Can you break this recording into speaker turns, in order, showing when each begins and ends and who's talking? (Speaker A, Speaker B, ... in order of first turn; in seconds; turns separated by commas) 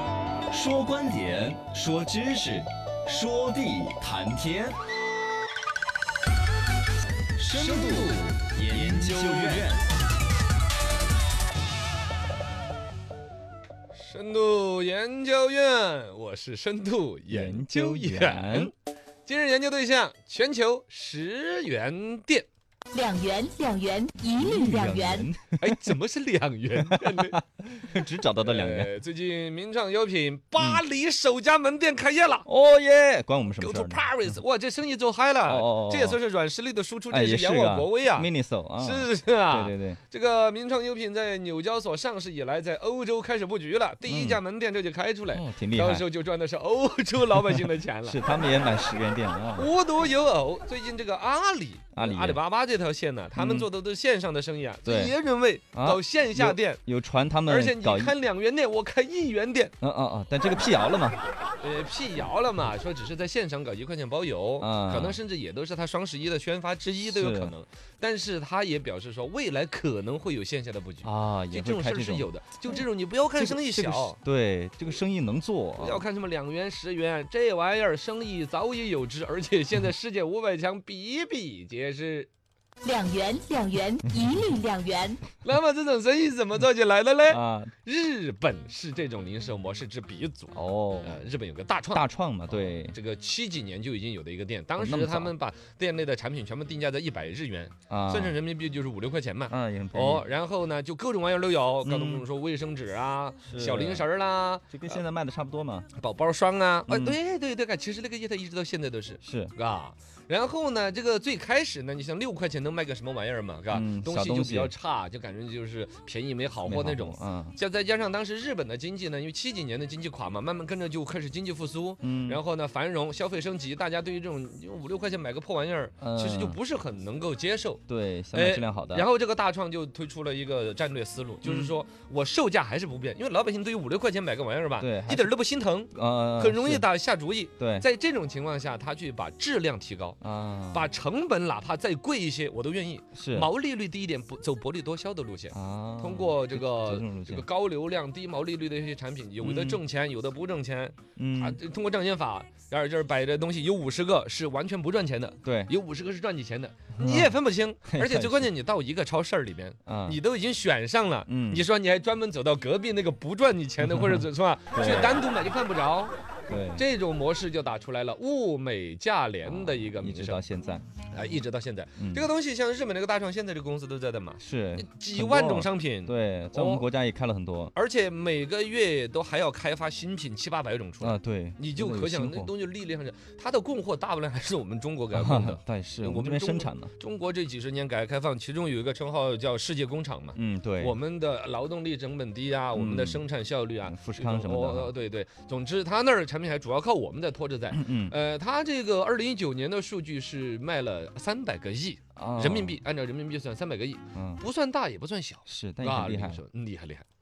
Speaker A: 0.5-4.8, Speaker A: 7.4-9.9, Speaker B: 7.4-9.7, Speaker B: 13.9-18.7, Speaker A: 17.3-18.7, Speaker B: 19.2-22.5, Speaker C: 22.9-25.3, Speaker A: 24.3-25.9, Speaker B: 25.6-32.5, Speaker A: 26.8-29.0, Speaker A: 30.6-30.8, Speaker A: 32.5-34.4, Speaker B: 33.6-48.2, Speaker A: 35.5-36.2, Speaker A: 37.1-40.0, Speaker A: 44.1-44.4, Speaker A: 45.3-46.0, Speaker A: 47.5-49.7, Speaker B: 49.5-56.8, Speaker A: 51.9-52.4, Speaker A: 53.3-53.7, Speaker A: 54.9-55.1, Speaker A: 55.7-58.1, Speaker B: 57.5-59.7, Speaker A: 59.8-61.2, Speaker B: 61.6-74.2, Speaker A: 64.6-65.2, Speaker A: 67.1-67.5, Speaker A: 71.0-72.8, Speaker A: 73.4-76.0, Speaker B: 75.8-82.3, Speaker C: 82.8-85.2, Speaker B: 85.4-105.0, Speaker A: 87.3-87.7, Speaker A: 90.5-91.3, Speaker A: 91.9-93.0, Speaker A: 94.8-95.3, Speaker A: 97.9-98.3, Speaker A: 99.5-100.2, Speaker A: 101.8-102.2, Speaker A: 103.5-104.0, Speaker A: 104.7-105.9, Speaker B: 106.0-127.8, Speaker A: 106.9-107.2, Speaker A: 109.2-109.5, Speaker A: 113.7-114.7, Speaker A: 116.6-117.6, Speaker A: 122.0-122.4, Speaker A: 126.0-126.6, Speaker A: 127.9-129.1, Speaker B: 128.3-140.2, Speaker A: 131.4-131.7, Speaker A: 134.8-135.3, Speaker A: 135.9-136.9, Speaker A: 137.6-137.8, Speaker A: 140.2-140.9, Speaker B: 140.7-166.1, Speaker A: 143.1-143.5, Speaker A: 145.5-147.4, Speaker A: 149.4-149.8, Speaker A: 151.2-151.6, Speaker A: 155.4-155.7, Speaker A: 157.0-157.3, Speaker A: 157.9-158.5, Speaker A: 159.8-160.2, Speaker A: 161.3-161.7, Speaker A: 163.8-165.2, Speaker A: 166.5-166.8, Speaker B: 166.7-170.4, Speaker A: 169.4-170.9, Speaker B: 171.1-176.9, Speaker A: 172.0-172.3, Speaker A: 174.4-177.7, Speaker B: 177.7-207.0, Speaker A: 181.0-182.5, Speaker A: 185.1-186.9, Speaker A: 190.3-190.9, Speaker A: 192.7-193.2, Speaker A: 193.8-194.9, Speaker A: 197.7-198.1, Speaker A: 202.2-202.8, Speaker A: 204.1-204.4, Speaker A: 205.4-206.4